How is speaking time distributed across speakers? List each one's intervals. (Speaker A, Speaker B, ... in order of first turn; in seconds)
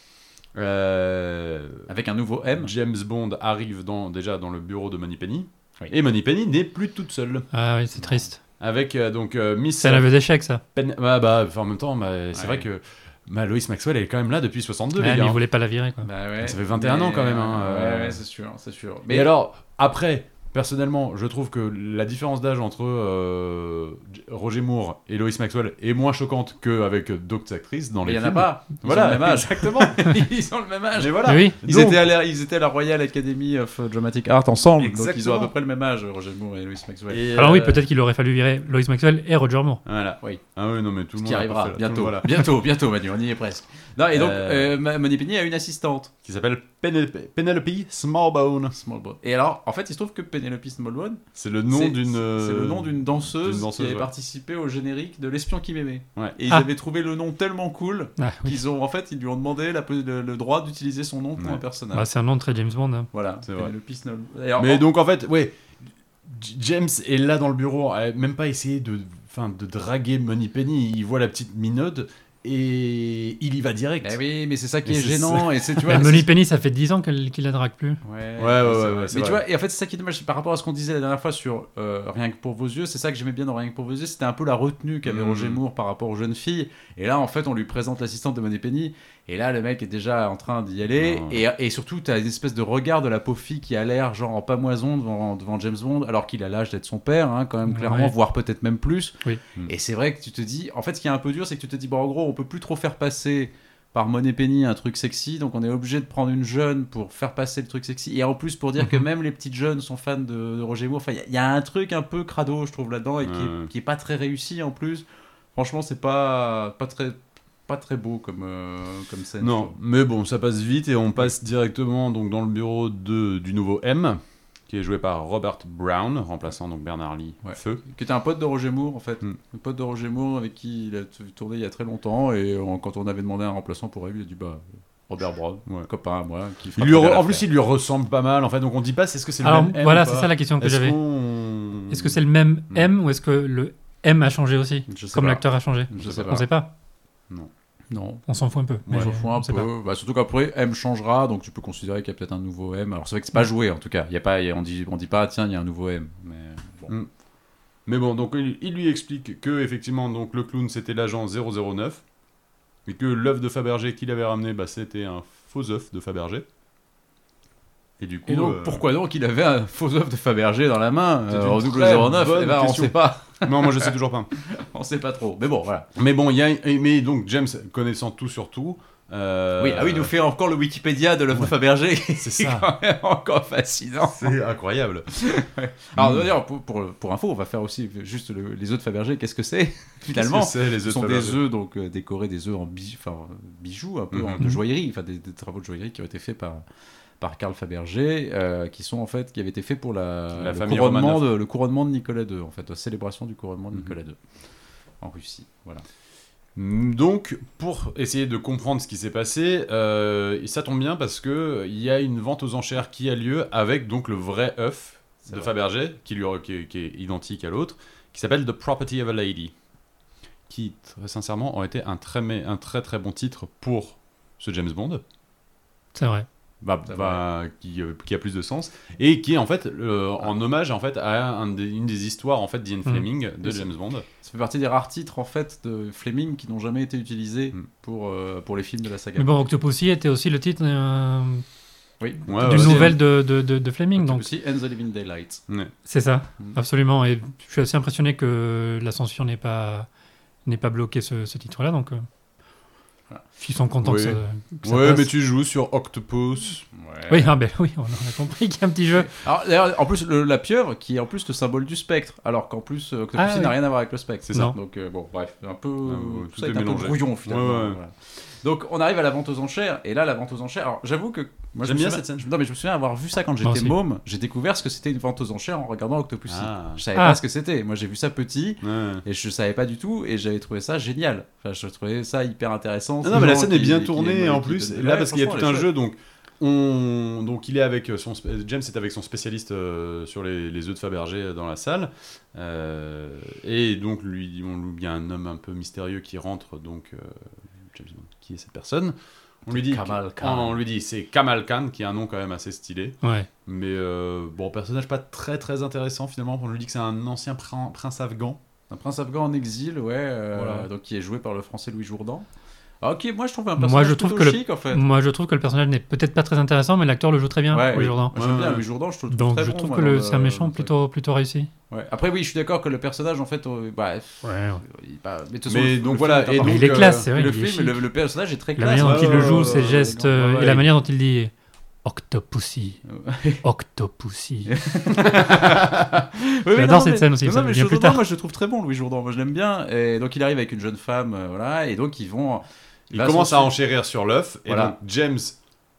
Speaker A: 0.6-1.9, 2.6-7.5, 8.6-10.1, 10.8-15.4, 16.4-18.2, 19.1-30.2, 31.0-32.1, 34.8-35.5, 37.1-37.8, 39.9-42.3, 44.1-44.7, 46.2-48.8, 51.4-54.1, 63.5-63.7, 64.6-74.2, 74.9-76.0, 78.4-79.4, 85.1-85.6, 91.0-91.4, 113.2-113.7, 119.4-127.8, 136.8-142.9, 157.9-162.0, 162.9-166.4, 168.0-168.8, 171.3-174.3, 176.0-180.1, 182.2-182.7, 184.1-185.1, 186.0-186.3, 190.1-191.4, 194.1-194.4, 200.3-201.3, 206.6-219.5, 220.5-225.0, 226.6-234.1, 242.3-243.0, 253.8-256.7, 264.3-264.6, 265.9-267.8, 271.6-272.3, 276.3-276.8, 278.6-279.0, 283.0-298.9, 299.5-308.4, 310.4-310.6, 317.7-318.6, 325.5-327.1, 328.8-329.7, 335.1-335.7, 342.9-345.4
Speaker B: 1.9-2.7, 12.3-12.7, 16.0-19.3, 28.1-37.3, 41.2-46.1, 48.7-62.0, 63.1-64.8, 74.0-76.3, 78.0-119.8, 127.4-137.5, 144.9-146.5, 147.9-148.2, 148.9-156.9, 168.3-175.9, 179.6-184.4, 185.1-196.6, 197.2-204.2, 205.0-205.8, 226.9-227.2, 234.2-239.3, 242.0-243.0, 244.0-245.4, 256.7-257.3, 259.1-285.7, 299.5-300.6, 308.7-312.3, 312.8-314.8, 317.5-320.7, 321.7-330.6, 332.9-333.4, 334.5-343.5, 344.5-344.8
Speaker C: 7.5-8.4, 9.8-10.6, 15.0-16.1, 31.2-31.6, 37.4-39.8, 58.2-58.6, 61.9-63.1, 75.8-78.0, 97.7-98.1, 139.4-141.0, 141.9-146.7, 148.3-149.7, 225.9-226.3, 239.2-241.4, 242.4-244.3, 245.9-249.9, 250.5-252.0, 253.4-255.1, 257.1-259.1, 263.2-263.6, 264.3-264.6, 273.4-273.8, 303.0-303.3, 313.6-318.2, 319.1-321.5, 324.2-324.6, 326.4-327.8, 328.6-331.3, 331.9-332.8, 333.4-334.5, 336.5-338.0